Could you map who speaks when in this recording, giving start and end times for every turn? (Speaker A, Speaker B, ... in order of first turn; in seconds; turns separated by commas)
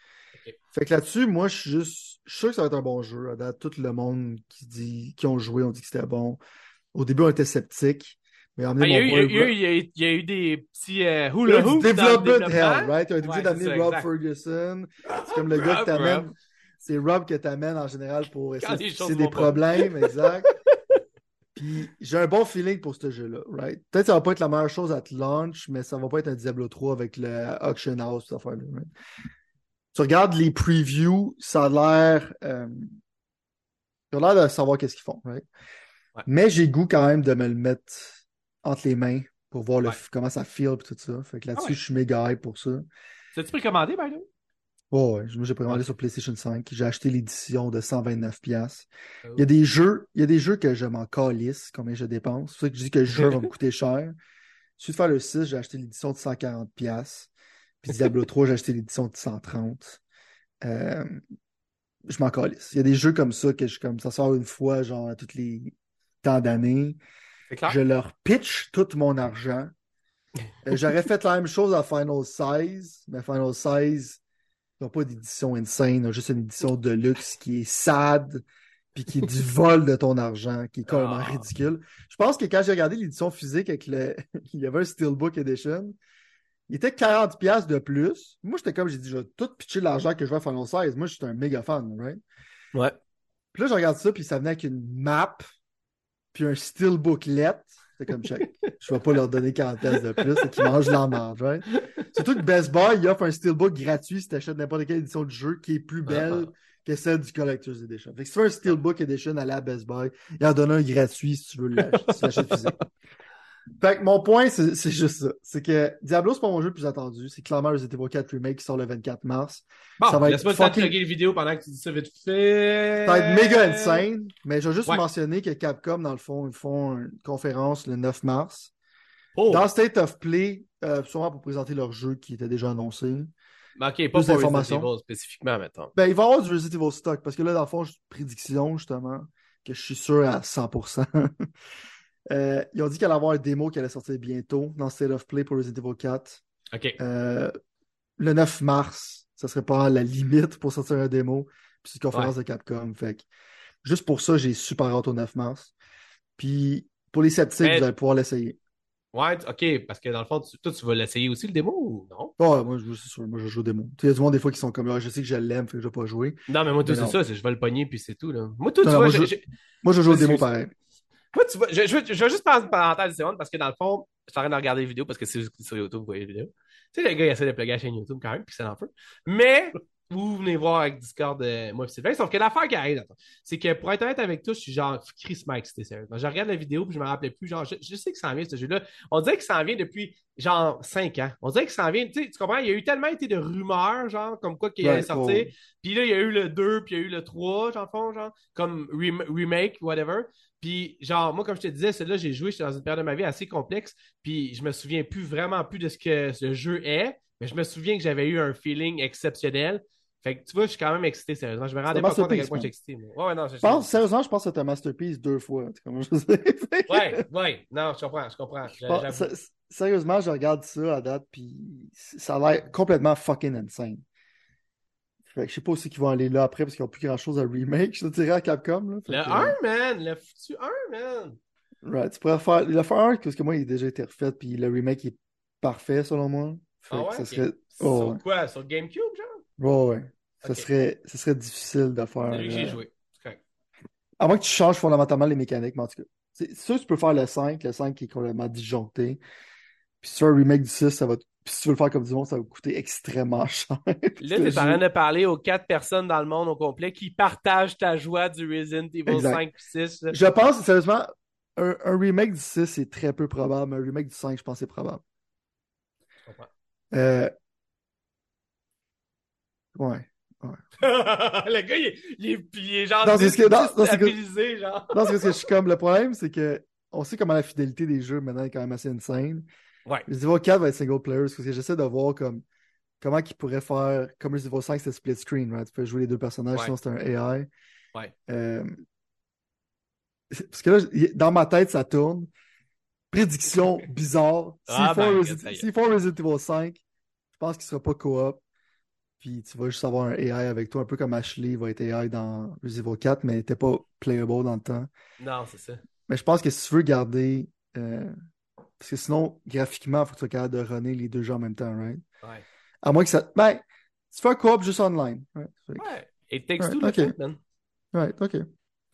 Speaker A: 0.7-6.4, Speaker A: 6.9-9.5, Speaker B: 8.8-14.1, Speaker A: 11.4-20.5, Speaker B: 15.1-16.3, Speaker B: 18.6-20.7, Speaker A: 21.6-28.9, Speaker A: 29.9-33.0, Speaker A: 34.1-35.5, Speaker A: 36.2-42.9, Speaker B: 43.3-44.2, Speaker A: 44.9-54.1, Speaker B: 53.1-53.5, Speaker A: 54.8-57.3, Speaker A: 57.8-60.0, Speaker A: 60.6-61.2, Speaker A: 62.1-67.0, Speaker B: 67.5-67.8, Speaker A: 67.7-69.7, Speaker A: 70.6-74.2, Speaker A: 74.8-86.0, Speaker B: 80.9-81.5, Speaker A: 86.7-92.2, Speaker A: 93.5-95.4, Speaker A: 96.3-112.8, Speaker B: 99.9-100.7, Speaker B: 101.7-102.0, Speaker B: 106.0-106.5, Speaker B: 111.9-112.7, Speaker A: 113.8-120.9, Speaker B: 120.0-124.0, Speaker A: 123.0-128.7, Speaker B: 129.3-129.6, Speaker A: 129.5-133.3, Speaker B: 133.8-135.9, Speaker A: 134.1-134.9, Speaker A: 135.9-141.5, Speaker A: 142.3-146.4, Speaker B: 146.7-147.0, Speaker A: 147.0-147.5, Speaker A: 148.2-153.2, Speaker A: 153.8-155.7, Speaker A: 156.4-158.6, Speaker B: 157.6-157.9, Speaker B: 159.1-162.3, Speaker A: 162.4-167.2, Speaker B: 166.5-169.4, Speaker A: 168.8-170.7, Speaker B: 170.1-170.5, Speaker B: 171.3-214.0, Speaker A: 194.8-195.5, Speaker A: 211.9-212.7, Speaker A: 213.6-217.2, Speaker B: 216.9-219.3, Speaker A: 218.8-224.0, Speaker A: 225.3-229.6, Speaker B: 229.1-231.4, Speaker A: 231.8-238.2, Speaker B: 236.9-239.4, Speaker A: 239.6-242.8, Speaker B: 240.4-240.7, Speaker B: 242.3-243.4, Speaker A: 244.2-249.2, Speaker A: 250.0-254.8, Speaker B: 254.2-260.2, Speaker A: 259.1-259.4, Speaker A: 260.1-265.0, Speaker A: 266.9-267.3, Speaker A: 269.7-270.6, Speaker B: 270.8-275.5, Speaker A: 273.0-274.2, Speaker A: 274.9-279.5, Speaker A: 280.1-282.4, Speaker A: 283.0-287.5, Speaker A: 288.3-288.8, Speaker A: 290.3-292.3, Speaker A: 293.1-296.8, Speaker B: 294.7-295.6, Speaker A: 297.3-298.4, Speaker A: 299.2-304.9, Speaker B: 305.2-305.8, Speaker A: 306.1-308.1, Speaker A: 308.8-312.0, Speaker A: 312.8-315.9, Speaker B: 315.8-317.4, Speaker A: 316.6-317.1, Speaker A: 317.9-318.4